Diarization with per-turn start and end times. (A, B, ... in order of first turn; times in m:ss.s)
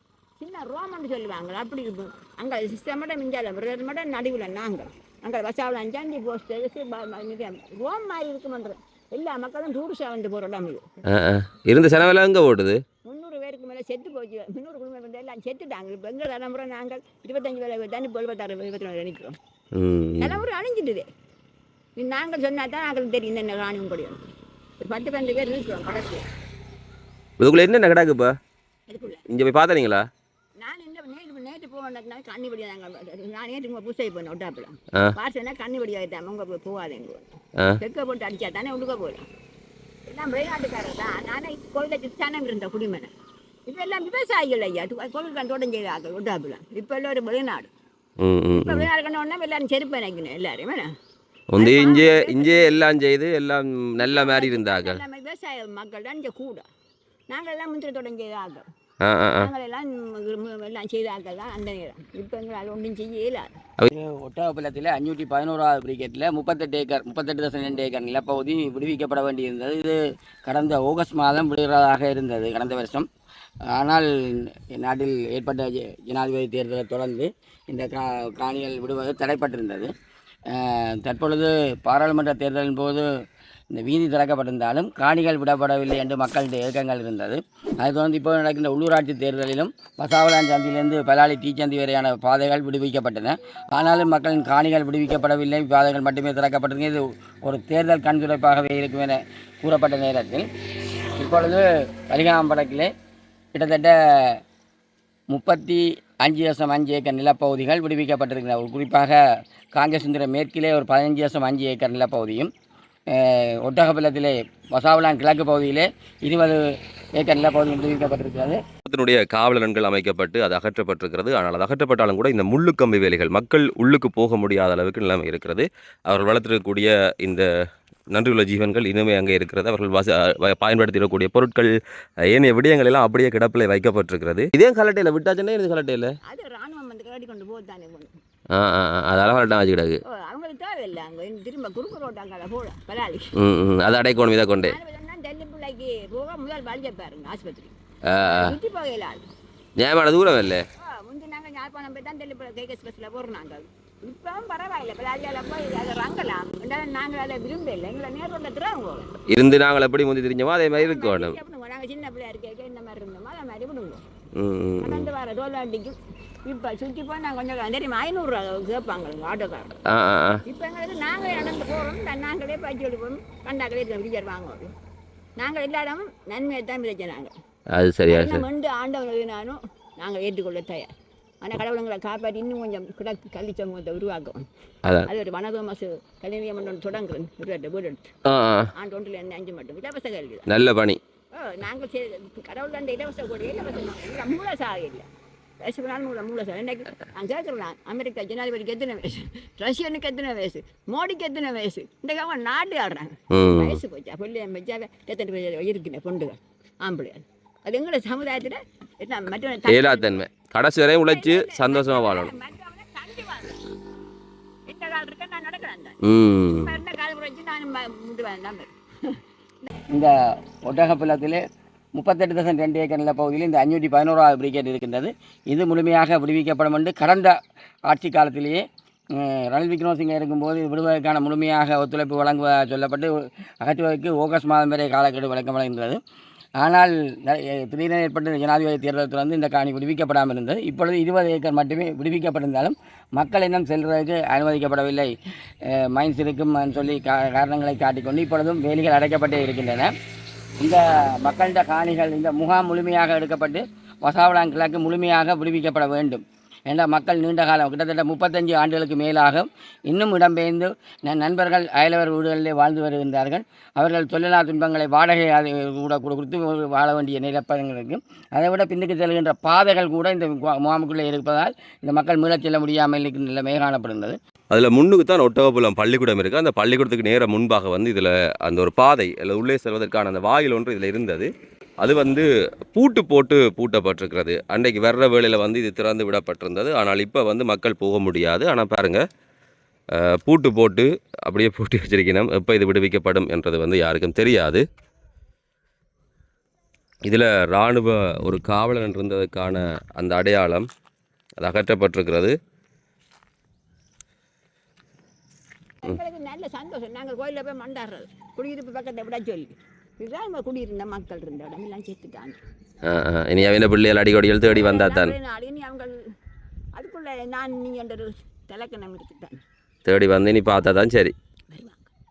0:00.4-0:10.8 A
0:11.1-0:12.8 B
0:13.0-0:19.4 A
0:19.8-0:20.4 B
0:20.2-0:21.1 A
0:22.0-0:24.3 A
0:24.8-0:26.2 A
0:27.4-0:28.3 B
0:28.9-0:29.2 A
0:29.3-0:30.0 B
0:30.6-0:39.2 A
0:40.1-0:43.1 A
0:43.7-0:47.7 A
0:48.2-0:48.9 B
0:48.6-0:50.9 A
0:51.5-0:55.0 B
0:51.6-0:52.8 A
0:54.0-0:56.6 A
0:57.3-0:58.6 A
0:59.0-0:59.5 B
0:59.4-1:03.5 A
1:03.9-1:13.1 C
1:13.7-1:19.9 C
1:20.5-1:23.0 C
1:23.7-1:40.5 C
1:41.2-1:42.9 C
1:43.5-1:44.4 C
1:45.3-1:49.2 C
1:49.7-1:52.5 C
1:53.1-1:56.6 C
1:57.2-1:58.6 C
1:58.8-2:07.5 B
2:08.1-2:11.7 B
2:12.3-2:16.1 B
2:16.3-2:18.1 A
2:18.5-2:20.0 B
2:20.1-2:23.2 A
2:23.4-2:24.8 B
2:24.6-2:27.7 A
2:28.1-2:28.5 B
2:28.2-2:29.3 A
2:29.8-2:30.6 B
2:30.8-2:39.1 A
2:39.3-2:41.4 B
2:40.8-2:44.0 A
2:44.4-2:45.1 B
2:44.8-2:46.0 A
2:46.5-2:49.7 A
2:49.9-2:50.4 B
2:50.5-2:54.7 A
2:55.4-2:57.3 A
2:57.8-2:58.4 B
2:58.1-3:00.9 A
3:01.4-3:04.4 A
3:05.1-3:08.1 A
3:08.3-3:08.7 B
3:08.8-3:10.4 A
3:10.5-3:11.0 B
3:11.3-3:15.0 A
3:15.6-3:30.2 A
3:23.3-3:23.8 B
3:29.7-3:32.3 B
3:31.1-3:33.6 A
3:34.7-3:36.0 A
3:36.0-3:36.7 B
3:36.5-3:38.7 A
3:40.6-3:41.4 C
3:42.0-3:47.4 C
3:47.9-3:48.6 C
3:49.1-3:56.0 C
3:56.6-4:05.1 C
4:05.6-4:09.9 C
4:10.6-4:34.2 C
4:34.5-4:49.0 B
4:49.9-4:54.6 B
4:57.1-5:00.7 B
5:01.4-5:02.4 B
5:05.8-5:12.4 A
5:12.8-5:15.1 B
5:14.5-5:15.9 A
5:16.8-5:19.4 A
5:19.8-5:21.1 B
5:21.5-5:21.9 A